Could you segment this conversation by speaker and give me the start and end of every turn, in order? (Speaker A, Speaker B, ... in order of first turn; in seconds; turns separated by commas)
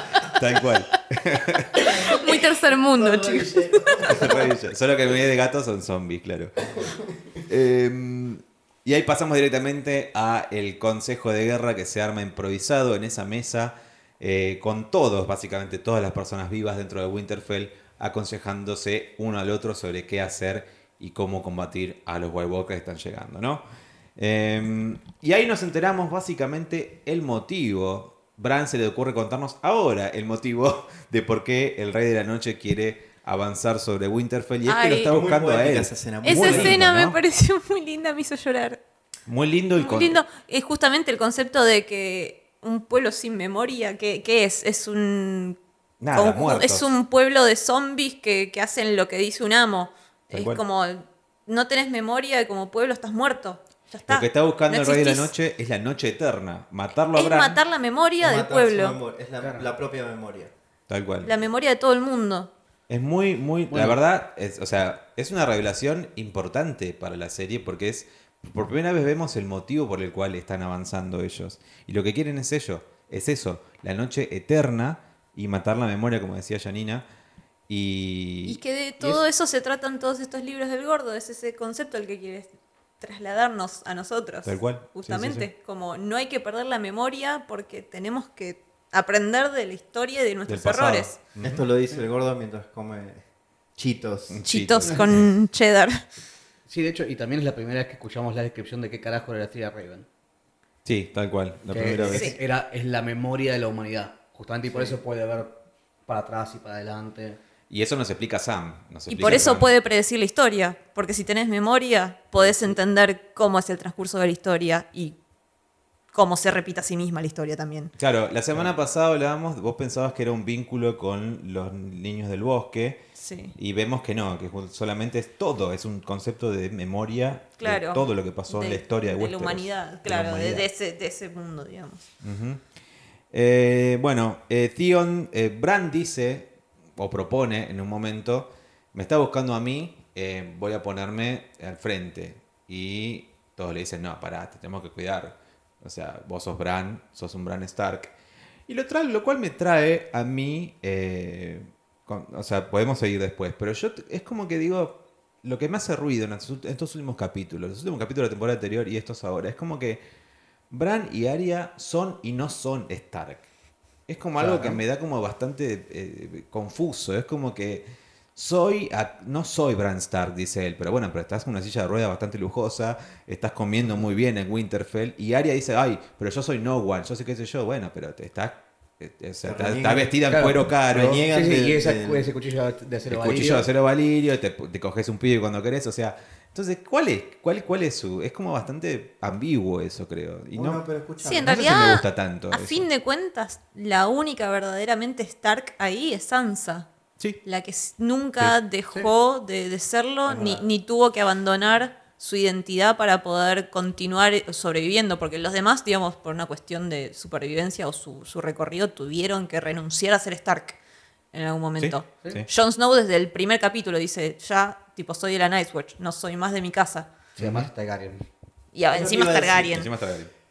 Speaker A: 0.2-1.9, Speaker B: 1.8-4.0, Speaker C: 1.9-4.5, Speaker A: 4.1-6.5, Speaker A: 7.5-23.6, Speaker A: 24.2-37.2, Speaker B: 34.7-35.1, Speaker C: 34.9-36.8, Speaker B: 36.2-38.8, Speaker A: 39.3-40.2, Speaker B: 39.8-45.6, Speaker A: 46.0-46.9, Speaker B: 46.1-55.3, Speaker A: 50.3-50.6, Speaker A: 54.1-57.6, Speaker B: 57.1-59.0, Speaker C: 58.2-60.5, Speaker D: 59.4-59.7, Speaker A: 60.9-61.3, Speaker B: 61.2-62.5, Speaker A: 62.9-77.0, Speaker D: 63.7-64.0, Speaker A: 77.7-78.6, Speaker B: 78.5-91.2, Speaker A: 84.5-85.5, Speaker A: 90.5-91.6, Speaker C: 91.4-93.2, Speaker C: 93.8-94.4, Speaker A: 94.3-95.2, Speaker B: 94.5-96.0, Speaker D: 96.7-100.1, Speaker A: 100.8-102.3, Speaker D: 101.7-107.4, Speaker B: 102.1-102.4, Speaker A: 107.7-109.7, Speaker B: 109.1-115.2, Speaker B: 116.1-117.9, Speaker A: 118.0-123.0, Speaker B: 123.2-123.5, Speaker A: 123.6-130.7, Speaker B: 127.6-132.1, Speaker A: 132.2-132.6, Speaker A: 133.3-148.1, Speaker A: 148.7-160.0, Speaker A: 160.7-163.5, Speaker A: 164.1-181.2, Speaker D: 164.4-164.8, Speaker C: 179.4-180.1, Speaker D: 180.3-180.6, Speaker C: 180.9-182.3, Speaker D: 181.2-183.7, Speaker A: 183.1-190.8, Speaker C: 190.5-191.9, Speaker B: 191.2-196.9, Speaker A: 191.4-192.9, Speaker B: 197.4-210.8, Speaker C: 200.3-200.6, Speaker B: 211.3-217.1, Speaker A: 211.8-212.5, Speaker A: 217.4-217.7, Speaker D: 217.4-218.2, Speaker B: 218.7-219.9, Speaker C: 218.9-219.9, Speaker A: 219.7-220.3